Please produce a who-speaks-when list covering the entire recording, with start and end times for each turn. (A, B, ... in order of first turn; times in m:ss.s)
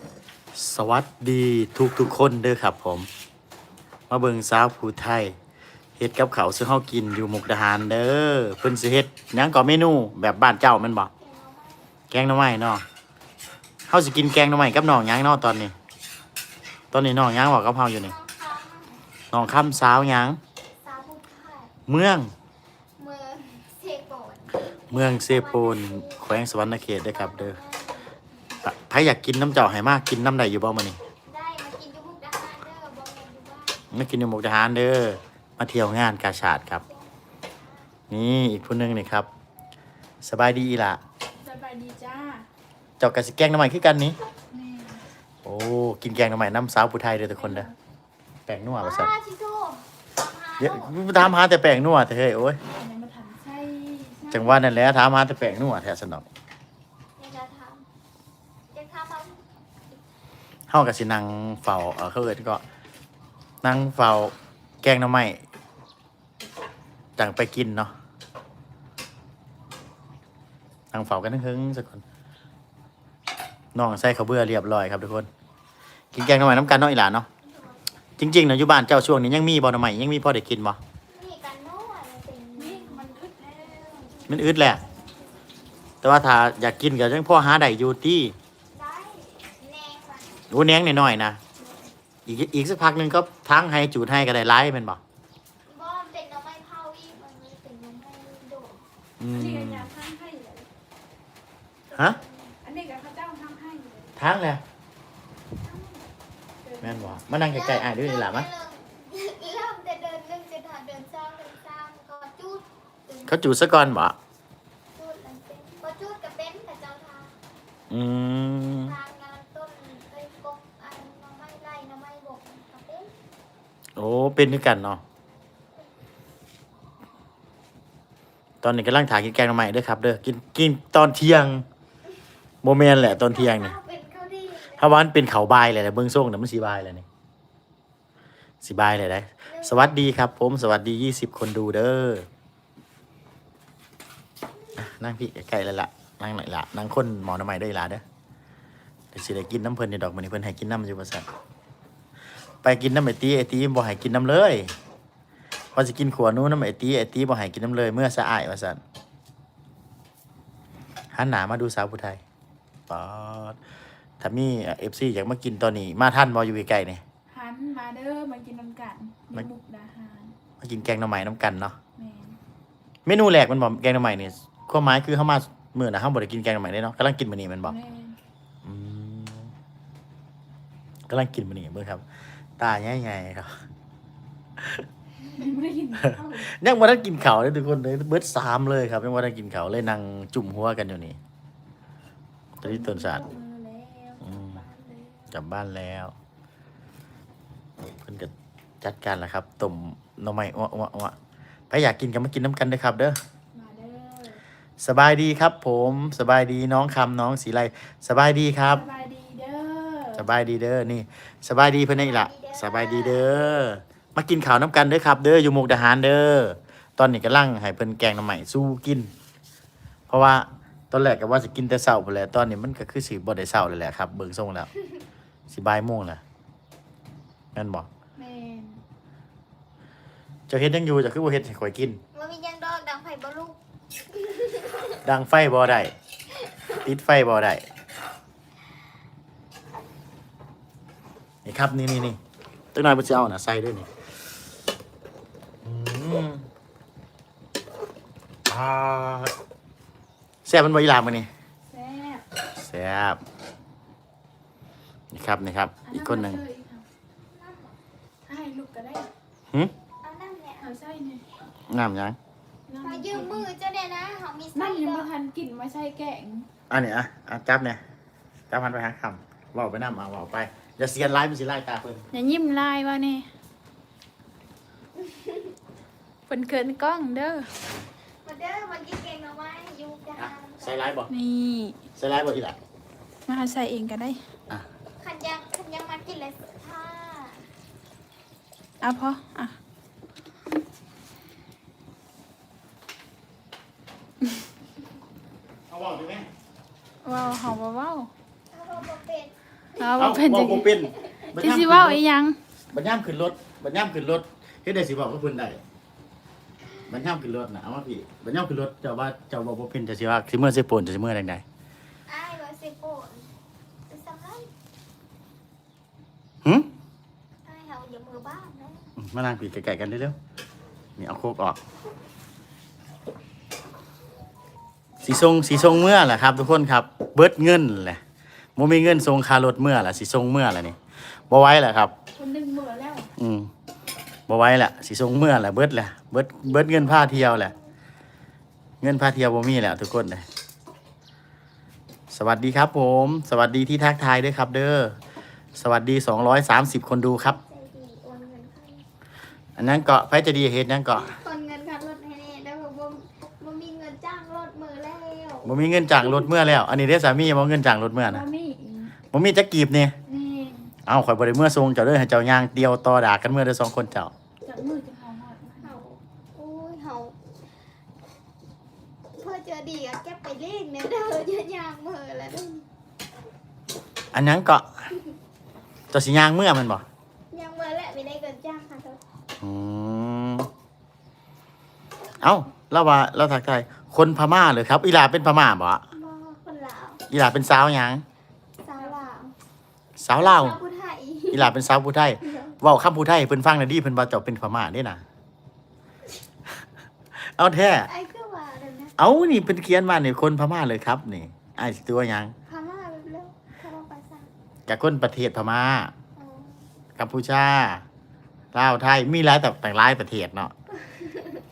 0:00.5-0:03.1 A
0:04.1-0:05.3 A
0:06.0-0:11.1 A
0:11.2-0:11.9 B
0:12.1-0:12.8 A
0:13.9-0:15.8 A
0:16.9-0:18.1 A
0:18.0-0:19.0 B
0:19.3-0:20.4 A
0:20.8-0:21.7 B
0:21.9-0:22.3 A
0:23.0-0:26.3 B
0:24.9-0:27.6 A
0:27.0-0:28.1 B
0:28.6-0:31.0 A
0:31.2-0:33.8 B
0:33.9-0:36.8 A
0:36.8-0:37.9 B
0:38.1-0:39.3 A
0:40.2-0:41.0 A
0:41.4-0:42.4 C
0:43.0-0:44.2 A
0:44.5-0:45.0 C
0:45.4-0:47.7 A
0:47.4-0:47.7 C
0:48.5-0:49.1 A
0:48.8-0:51.0 B
0:50.6-0:52.6 A
0:52.6-0:54.7 C
0:54.3-0:56.3 A
0:57.2-0:57.9 B
0:58.7-0:59.4 B
1:00.7-1:02.6 A
1:03.6-1:05.4 A
1:07.2-1:07.9 A
1:10.9-1:12.0 A
1:13.7-1:15.3 A
1:16.1-1:17.3 A
1:18.2-1:20.8 A
1:21.1-1:23.0 B
1:22.6-1:24.3 C
1:24.3-1:24.8 A
1:26.0-1:28.4 A
1:28.7-1:30.5 B
1:30.5-1:31.4 A
1:32.2-1:35.0 A
1:35.6-1:38.8 B
1:39.2-1:39.9 A
1:39.3-1:40.7 C
1:41.9-1:42.6 B
1:42.6-1:44.1 C
1:44.2-1:44.6 A
1:46.6-1:47.2 C
1:46.8-1:48.5 A
1:47.4-1:53.5 B
1:53.3-1:54.2 A
1:54.9-1:57.4 B
1:57.9-1:58.9 A
1:58.8-2:03.1 B
2:04.0-2:05.0 A
2:08.6-2:11.6 A
2:12.6-2:13.8 A
2:13.2-2:15.0 B
2:14.8-2:17.1 A
2:18.6-2:22.3 A
2:19.5-2:20.0 B
2:24.8-2:28.0 A
2:29.1-2:31.3 A
2:32.6-2:34.7 A
2:35.7-2:38.8 A
2:41.1-2:42.2 A
2:42.9-2:43.6 A
2:44.2-2:47.0 A
2:47.3-2:50.3 C
2:50.6-2:51.8 A
2:52.0-2:52.4 C
2:53.1-2:57.8 A
2:57.7-2:58.2 C
2:58.6-2:59.5 A
3:01.1-3:02.0 A
3:02.6-3:03.5 A
3:04.6-3:04.8 A
3:05.2-3:06.5 C
3:06.3-3:11.2 A
3:12.6-3:13.2 A
3:12.6-3:15.3 C
3:14.2-3:14.6 A
3:15.3-3:16.2 A
3:17.8-3:21.2 A
3:21.7-3:23.2 A
3:23.5-3:24.4 C
3:24.8-3:28.9 A
3:28.7-3:30.2 C
3:30.2-3:39.1 A
3:31.8-3:33.3 B
3:40.1-3:44.7 A
3:45.5-3:46.2 A
3:47.5-3:47.9 A
3:48.2-3:48.8 C
3:50.5-3:52.0 A
3:52.1-3:53.6 B
3:55.0-3:55.9 A
3:56.8-3:57.6 A
4:01.4-4:02.2 A
4:02.7-4:03.9 A
4:05.6-4:06.5 A
4:08.5-4:09.3 A
4:10.4-4:11.3 A
4:11.7-4:12.2 C
4:12.5-4:13.2 A
4:15.1-4:16.4 A
4:15.8-4:16.8 C
4:17.2-4:17.8 B
4:18.2-4:19.1 C
4:20.0-4:20.7 B
4:20.6-4:21.2 C
4:21.7-4:22.2 A
4:22.7-4:23.5 C
4:22.8-4:25.1 B
4:24.5-4:26.5 C
4:26.7-4:27.8 A
4:28.5-4:32.0 A
4:32.1-4:33.3 C
4:35.0-4:35.4 B
4:36.3-4:37.5 C
4:38.2-4:40.9 B
4:40.2-4:41.1 A
4:41.1-4:41.8 C
4:42.0-4:42.6 A
4:43.3-4:44.2 C
4:45.0-4:47.5 B
4:48.8-4:49.6 C
4:55.7-4:56.3 A
4:57.0-4:58.1 C
4:58.5-4:59.9 B
4:59.8-5:02.4 C
5:00.0-5:02.0 A
5:01.0-5:01.2 B
5:02.7-5:05.6 A
5:06.9-5:11.4 A
5:12.1-5:13.3 B
5:13.9-5:14.5 B
5:16.4-5:16.7 A
5:17.4-5:18.9 B
5:19.0-5:20.2 A
5:21.0-5:21.6 A
5:25.0-5:28.0 A
5:28.6-5:30.8 A
5:31.3-5:31.9 A
5:32.1-5:33.1 C
5:33.2-5:33.5 A
5:34.3-5:37.5 A
5:36.5-5:37.6 B
5:38.8-5:40.2 A
5:42.1-5:45.0 A
5:45.5-5:47.4 A
5:47.2-5:48.8 B
5:49.6-5:51.2 A
5:50.9-5:55.6 B
5:55.4-5:58.2 A
5:58.0-5:58.9 C
5:59.1-5:59.9 A
6:00.1-6:00.7 C
6:00.8-6:04.1 A
6:04.4-6:05.8 C
6:05.6-6:07.2 B
6:09.2-6:12.6 B
6:14.1-6:14.7 A
6:15.9-6:16.8 A
6:17.3-6:19.0 B
6:19.4-6:20.5 A
6:22.2-6:25.8 A
6:25.9-6:27.0 B
6:27.1-6:28.0 A
6:28.6-6:29.3 B
6:30.0-6:30.6 A
6:30.1-6:31.6 B
6:31.3-6:35.0 A
6:32.3-6:32.6 B
6:37.2-6:37.9 A
6:37.9-6:38.9 B
6:39.0-6:42.3 A
6:42.5-6:44.3 B
6:44.7-6:45.9 A
6:46.2-6:46.6 B
6:47.0-6:47.8 A
6:48.5-6:50.5 A
6:50.9-6:51.2 B